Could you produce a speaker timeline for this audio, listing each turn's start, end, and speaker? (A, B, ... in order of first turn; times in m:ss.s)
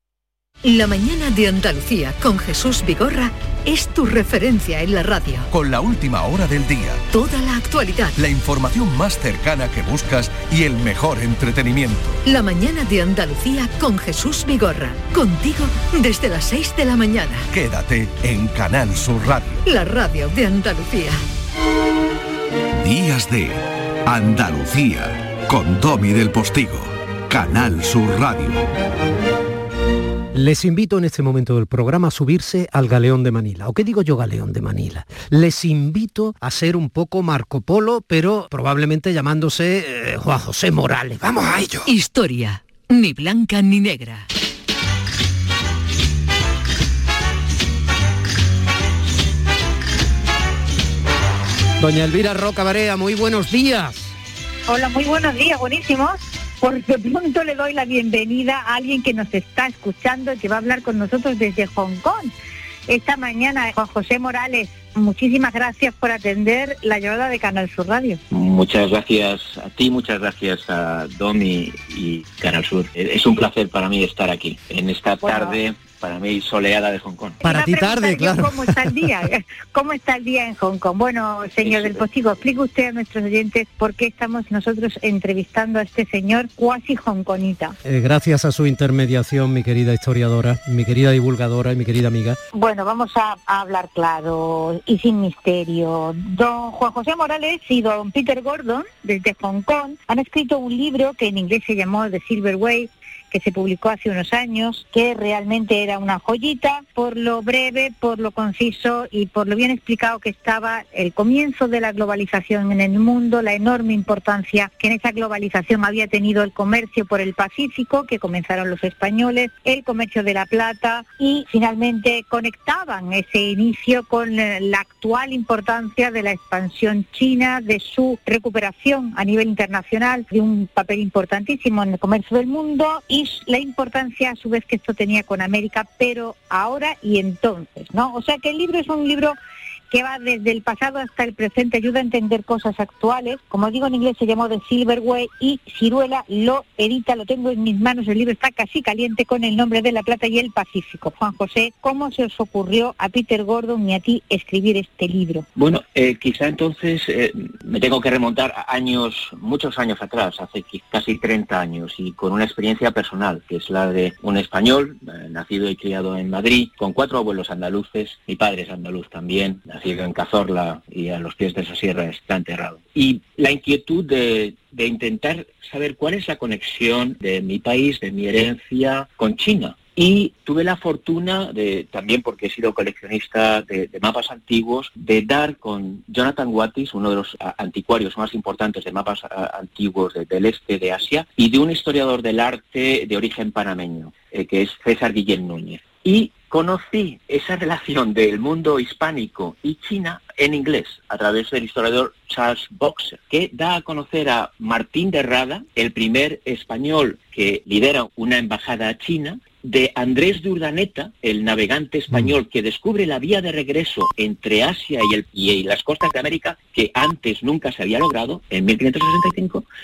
0:00.6-0:05.5 A
0:05.5-0:07.0 B
0:07.1-0:08.2 A
0:08.2-0:12.2 B
0:12.2-0:17.5 A
0:17.5-0:19.6 B
0:19.6-0:21.2 A
0:22.8-0:28.6 B
0:30.3-0:41.9 C
0:41.9-0:44.2 A
0:51.8-0:54.1 C
0:54.7-1:02.3 D
1:02.9-1:08.2 D
1:08.3-1:17.4 E
1:15.2-1:15.6 D
1:17.4-1:27.8 D
1:17.4-1:18.9 C
1:21.6-1:22.0 E
1:27.8-1:32.4 C
1:32.5-2:19.4 D
2:19.9-2:35.4 D
2:35.6-3:39.6 E